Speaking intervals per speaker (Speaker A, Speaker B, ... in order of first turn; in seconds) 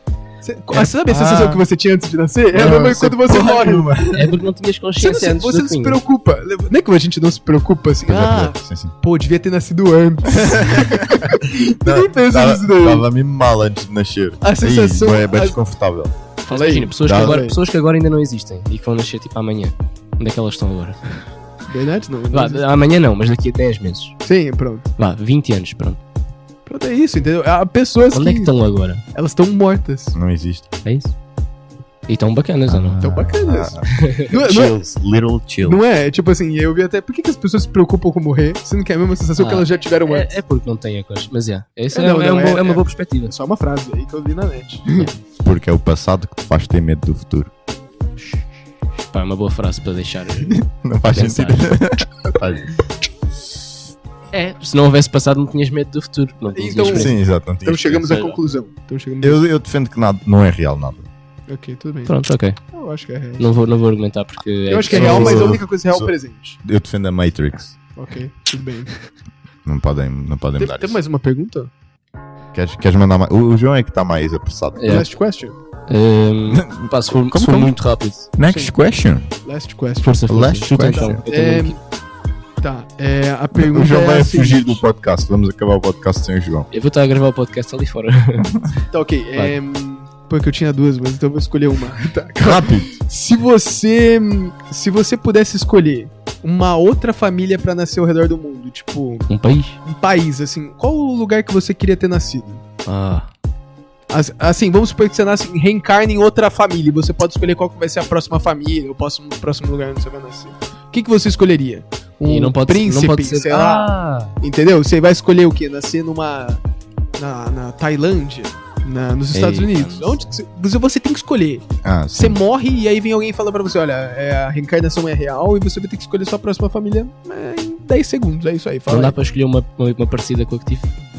Speaker A: 0.4-4.2, 5.0-13.1, 14.4-15.6, 16.5-17.6, 21.7-22.7, 24.2-24.9, 26.7-28.5, 29.1-30.2, 33.0-34.8, 35.6-40.4, 41.9-45.1, 56.5-59.4, 61.5-62.2, 62.7-63.5, 64.7-66.6, 68.0-68.9, 70.6-71.7, 74.8-75.6, 78.5-78.8, 79.4-81.8, 82.6-84.8, 88.9-99.3, 99.8-102.6, 104.1-116.6, 117.2-129.2
Speaker B: 0.8-1.6, 2.5-4.3, 8.1-8.9, 10.4-16.1, 17.0-17.4, 30.1-30.7, 32.7-35.8, 45.4-47.5, 50.5-52.7, 56.9-58.3, 59.2-61.1, 64.9-66.1, 66.6-67.8, 69.7-71.0, 72.5-74.9, 76.5-77.7, 78.4-79.3, 80.3-81.2, 83.5-86.7, 92.4-92.9, 121.8-122.4
Speaker C: 4.1-6.0, 16.5-21.2, 22.3-24.1, 25.0-26.0, 28.1-29.0, 30.8-31.1, 32.1-33.0, 33.9-34.3, 39.4-43.3, 49.1-51.8, 54.3-57.2, 58.0-58.4, 62.1-62.6, 63.4-65.6, 74.8-75.1, 75.9-78.3, 80.0-81.8, 86.7-88.5, 99.3-99.8, 102.9-103.3, 112.2-114.4, 119.3-120.3, 128.9-130.9